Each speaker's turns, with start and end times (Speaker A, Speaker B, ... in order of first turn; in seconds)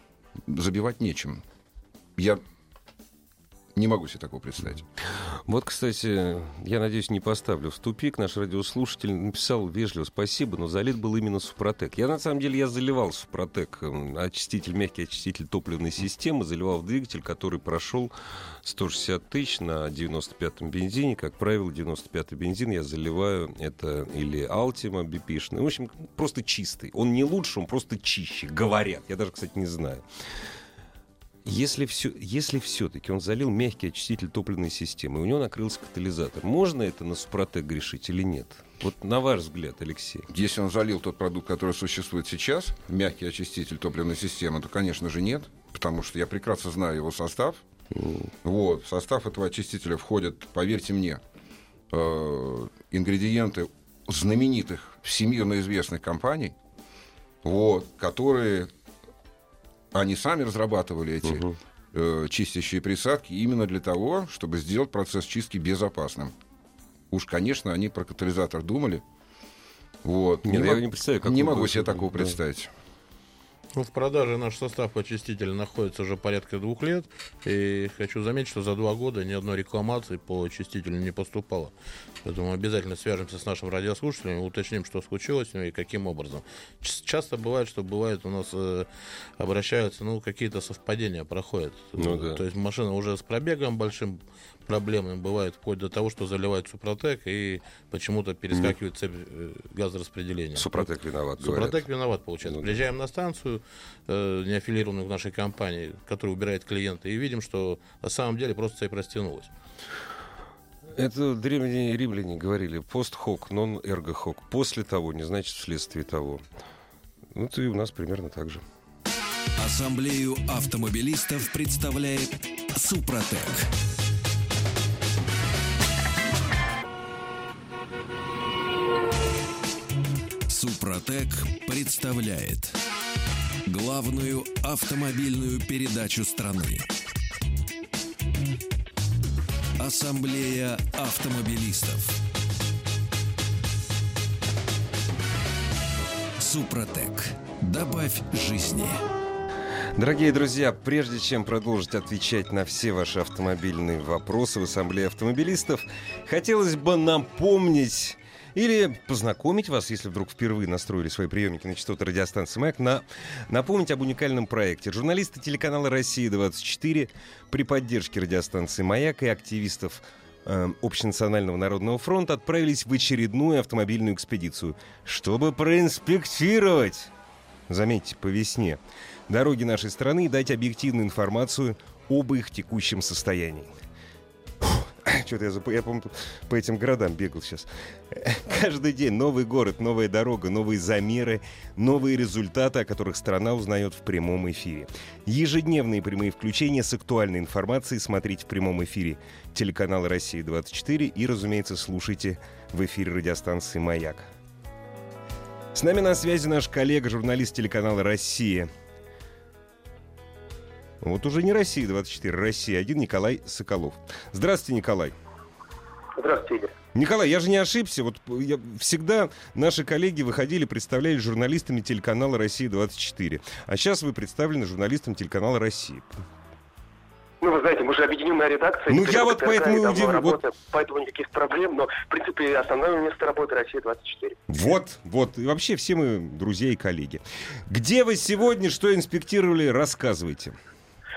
Speaker A: 0.5-1.4, 2.2-2.4, 3.8-4.8, 40.3-47.6, 48.4-51.2, 51.9-56.5, 57.4-58.7, 59.9-66.3, 67.1-69.0, 70.0-72.7
Speaker B: 5.5-18.1, 18.6-30.0, 31.4-40.3, 48.0-48.3, 70.5-72.4, 92.0-92.4, 100.5-101.8, 102.5-102.7, 111.0-116.4, 117.3-118.6, 149.9-177.1, 177.7-183.7, 184.6-204.3, 205.7-208.7, 211.0-215.2, 216.9-226.2, 228.9-230.4, 234.5-240.6
Speaker C: 73.7-88.9, 89.4-100.9, 101.4-109.5
Speaker D: 119.6-123.7, 130.5-132.8, 133.7-136.9, 139.8-142.2, 146.4-149.0
Speaker E: 216.2-216.7, 227.4-234.4